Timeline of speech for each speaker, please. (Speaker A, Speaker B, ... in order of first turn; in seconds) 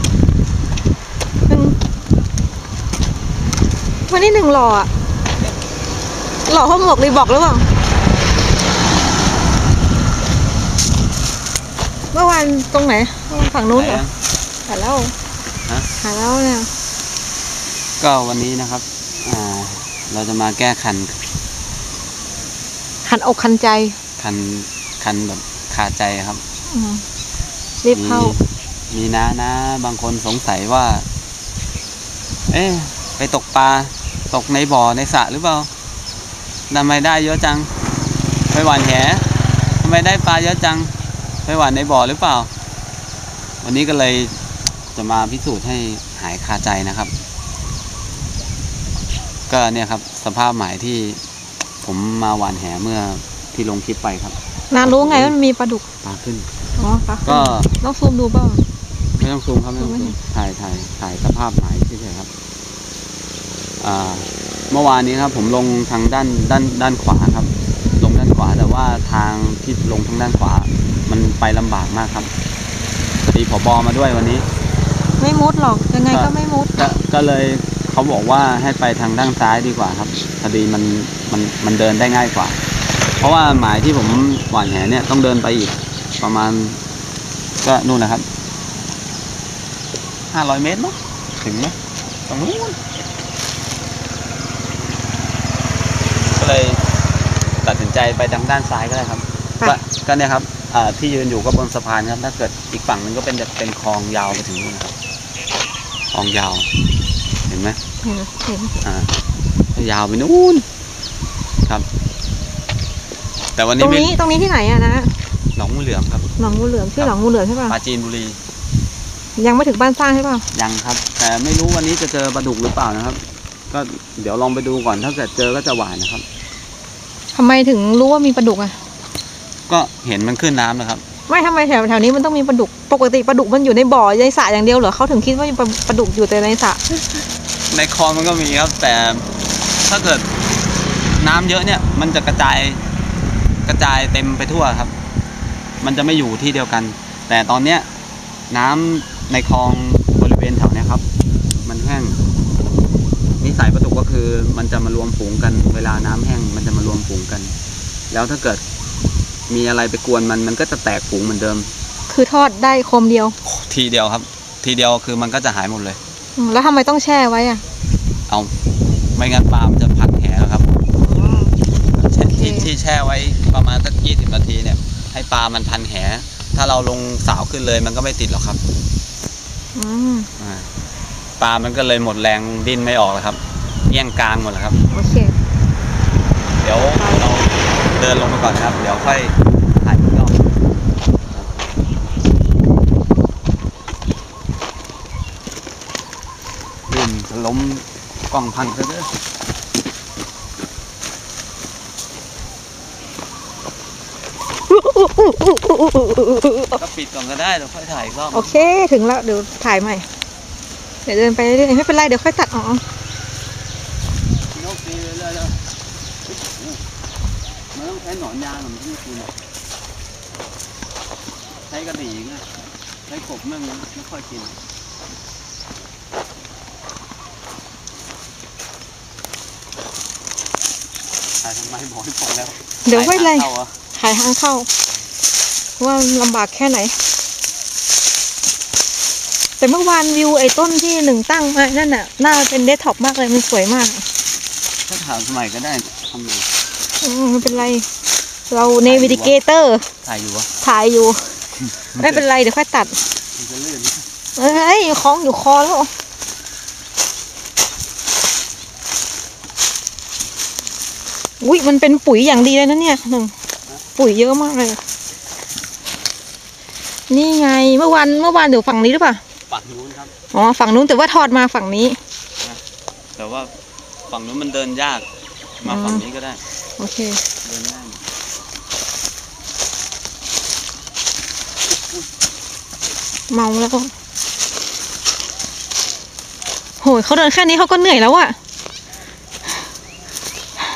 Speaker A: 1.5-1.8, 4.1-4.9, 6.5-7.7, 12.1-14.0, 14.7-15.1, 16.0-16.7, 23.1-24.0, 26.7-27.1, 27.8-28.4, 54.7-55.8, 56.8-58.6, 59.8-60.2, 75.2-76.9, 108.0-108.8, 113.8-115.2, 116.4-117.8, 119.4-120.5, 127.3-128.8, 131.3-137.2, 162.1-163.4, 166.4-167.6, 171.0-171.6, 172.3-172.7, 179.8-180.3, 184.9-185.4, 186.9-187.2, 204.7-206.8, 208.3-210.1, 211.1-212.8, 232.8-234.7, 235.8-237.0, 239.6-244.1, 247.0-247.9, 248.5-249.9, 250.6-251.4, 252.0-253.0, 254.4-255.9, 261.4-263.3, 264.0-264.8, 267.1-269.2, 270.3-272.0, 275.7-276.0, 276.8-277.2, 283.3-283.9, 286.8-288.4
Speaker B: 13.7-14.1, 18.0-21.2, 24.2-26.4, 27.9-31.1, 32.5-35.7, 36.7-37.7, 38.5-42.5, 43.6-44.4, 44.9-47.1, 49.5-51.2, 51.8-55.4, 56.0-56.5, 57.3-57.8, 59.1-62.3, 63.8-72.3, 73.3-74.5, 76.1-82.6, 83.2-86.8, 87.6-88.3, 90.3-91.8, 92.3-92.8, 96.3-96.8, 97.6-104.9, 106.1-106.7, 107.5-107.8, 108.8-109.1, 109.7-110.7, 113.6-114.1, 115.6-116.3, 117.7-118.4, 120.5-126.2, 129.7-131.0, 137.7-139.3, 139.8-140.3, 141.2-142.8, 143.7-144.9, 145.8-147.9, 148.5-151.1, 151.7-152.2, 153.4-157.6, 158.1-158.6, 159.5-161.7, 163.4-166.0, 168.3-168.5, 169.2-170.7, 171.9-178.6, 180.4-180.7, 181.4-184.8, 186.6-190.4, 191.3-191.7, 196.9-199.1, 206.8-208.6, 214.5-215.6, 216.3-216.8, 217.7-219.3, 221.7-222.5, 223.1-224.6, 231.4-233.8, 244.9-246.5, 248.8-249.3, 250.0-250.5, 251.7-252.2, 253.3-254.1, 269.5-270.1, 273.2-273.5, 274.1-275.1, 275.6-276.4, 277.4-278.0